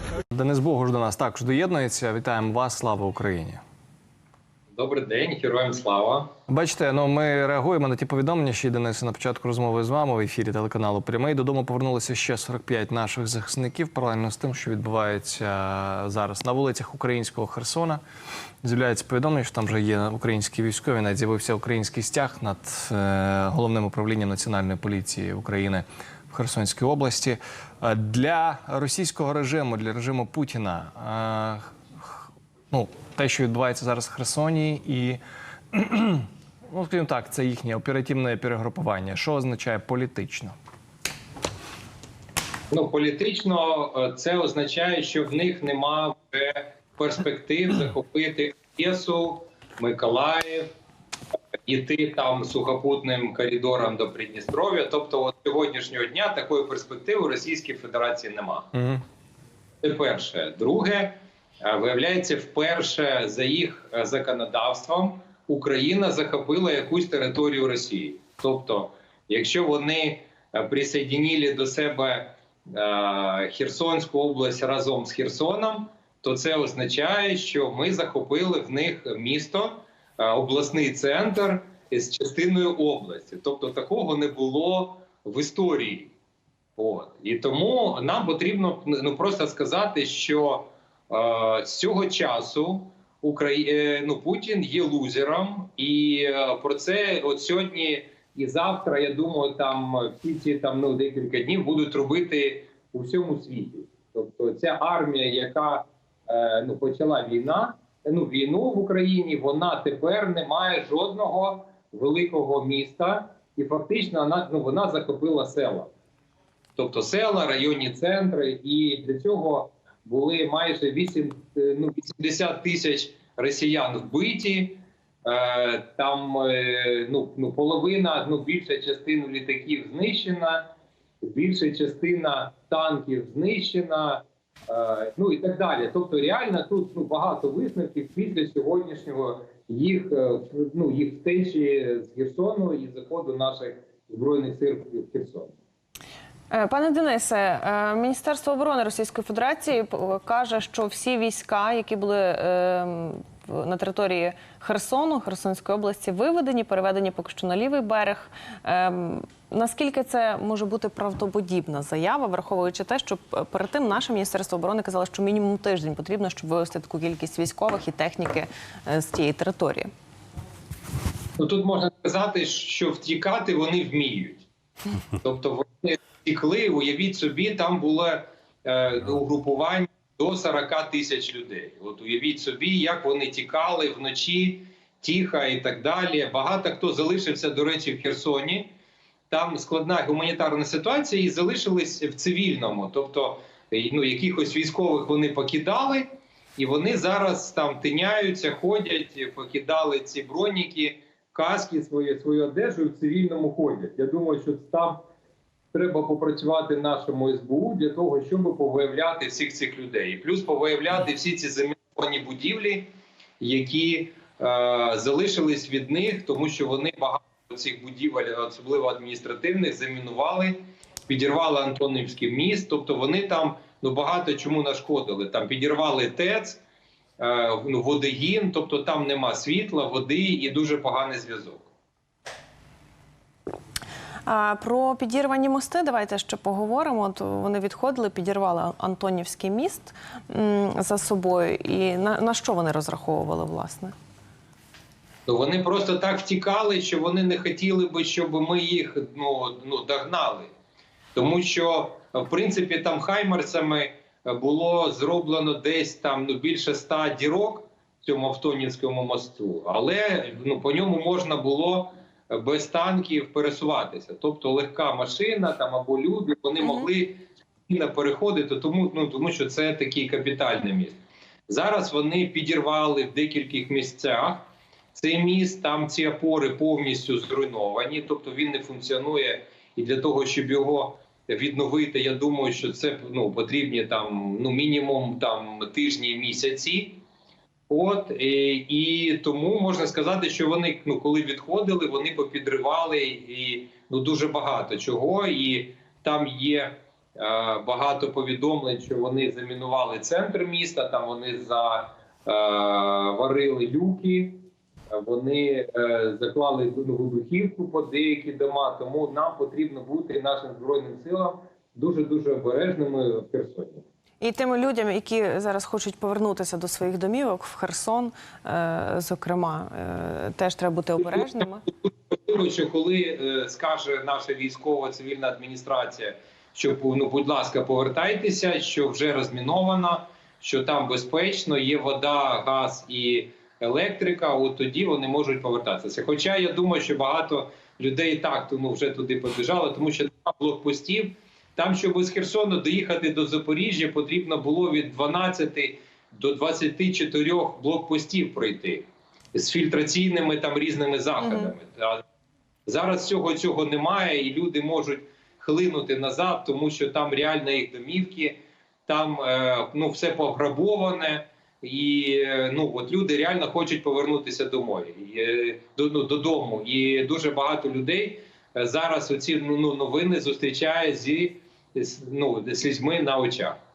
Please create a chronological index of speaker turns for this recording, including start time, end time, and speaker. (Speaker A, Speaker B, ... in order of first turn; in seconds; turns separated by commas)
Speaker A: 0.3-3.6, Speaker B: 4.7-6.3, Speaker A: 6.5-18.0, Speaker A: 18.6-32.1, Speaker A: 32.7-35.2, Speaker A: 35.7-40.5, Speaker B: 42.7-50.7, Speaker B: 51.6-58.7, Speaker A: 58.7-59.0, Speaker B: 59.8-86.1, Speaker B: 86.8-115.9, Speaker B: 116.8-145.5, Speaker C: 146.5-169.9, Speaker B: 171.4-174.5, Speaker B: 175.2-188.7, Speaker B: 189.3-205.0, Speaker B: 205.7-212.9, Speaker B: 213.4-226.6, Speaker B: 227.2-231.7, Speaker C: 234.2-243.9, Speaker B: 245.2-250.5, Speaker B: 251.1-287.0, Speaker B: 287.7-313.8, Speaker C: 314.2-321.6, Speaker B: 321.8-352.0, Speaker C: 351.2-351.5, Speaker B: 352.7-373.6